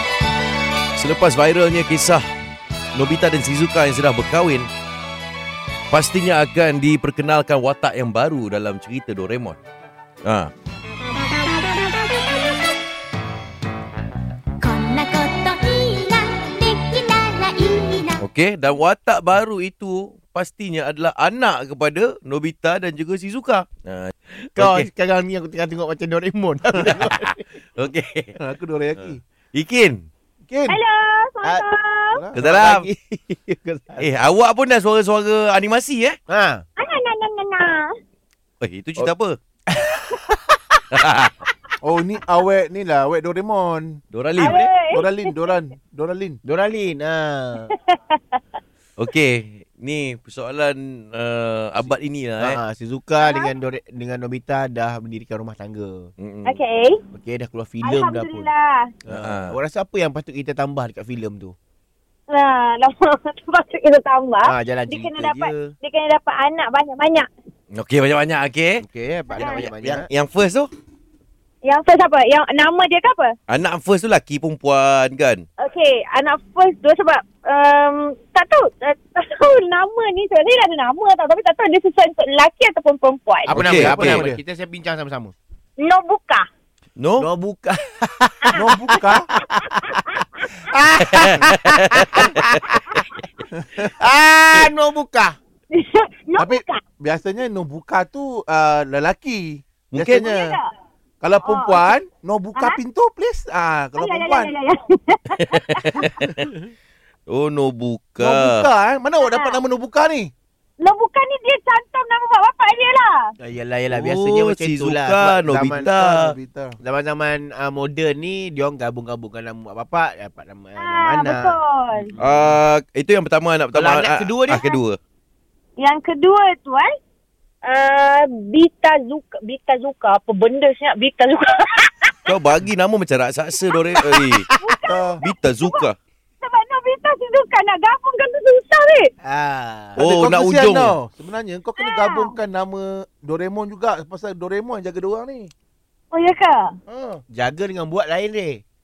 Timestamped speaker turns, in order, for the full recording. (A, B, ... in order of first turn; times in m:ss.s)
0:01.0-0:02.2 A
0:02.9-0:04.7 A
0:05.9-0:09.6 A
0:10.2-0:10.5 A
0:14.6-0:18.2 B
0:18.2-0:24.9 A
0:24.6-0:27.4 C
0:26.8-0:28.3 A
0:28.4-0:29.2 D
0:29.0-0:30.0 A
0:30.5-0:30.8 D
0:30.7-0:32.2 E
0:32.1-0:32.4 D
0:32.4-0:32.9 A
0:32.4-0:34.1 C
0:34.0-0:36.2 A
0:36.3-0:36.6 C
0:36.8-0:37.9 E
0:38.6-0:39.4 A
0:39.7-0:40.8 C
0:40.9-0:41.3 A
0:41.8-0:44.0 D
0:44.1-0:44.6 A
0:44.4-0:45.5 E
0:44.4-0:44.7 C
0:44.9-0:46.4 D
0:46.4-0:47.7 C
0:47.7-0:48.4 E
0:49.0-0:52.6 A
0:51.8-0:56.1 C
0:53.2-0:53.5 E
0:56.2-0:56.6 A
0:56.4-0:57.0 E
0:57.1-0:58.5 C
0:57.8-0:58.9 E
0:59.0-1:01.5 C
0:59.1-0:59.6 A
1:02.3-1:07.3 E
1:04.4-1:05.7 C
1:07.7-1:08.8 A
1:08.8-1:10.1 C
1:09.3-1:09.6 E
1:09.4-1:10.7 A
1:11.6-1:13.4 E
1:13.5-1:15.4 A
1:15.6-1:23.6 E
1:23.5-1:25.3 C
1:23.5-1:24.2 A
1:23.6-1:24.4 D
1:25.8-1:26.4 E
1:27.0-1:27.3 A
1:27.2-1:33.2 C
1:28.5-1:29.3 D
1:29.5-1:30.6 E
1:31.0-1:32.4 A
1:33.5-1:33.9 D
1:33.8-1:35.4 C
1:35.7-1:36.8 E
1:36.4-1:40.5 D
1:39.9-1:40.3 A
1:40.2-1:40.7 E
1:41.2-1:44.5 D
1:41.4-1:41.9 E
1:44.0-1:46.2 E
1:45.4-1:46.5 A
1:47.3-1:48.6 A
1:48.2-1:50.3 D
1:49.2-1:49.6 E
1:50.8-1:53.3 E
1:53.4-1:55.9 C
1:53.9-1:56.3 A
1:55.8-1:56.8 D
1:56.8-2:02.4 C
2:00.8-2:02.1 E
2:02.2-2:05.0 A
2:03.7-2:04.7 C
2:05.8-2:06.9 E
2:07.6-2:12.3 E
2:12.2-2:14.4 A
2:14.2-2:14.5 C
2:14.6-2:15.8 E
2:14.8-2:15.2 D
2:15.2-2:16.0 A
2:16.4-2:19.1 E
2:19.2-2:20.0 C
2:20.0-2:20.9 A
2:20.0-2:25.5 D
2:21.8-2:22.3 E
2:26.1-2:26.8 E
2:26.9-2:27.2 D
2:27.3-2:28.6 C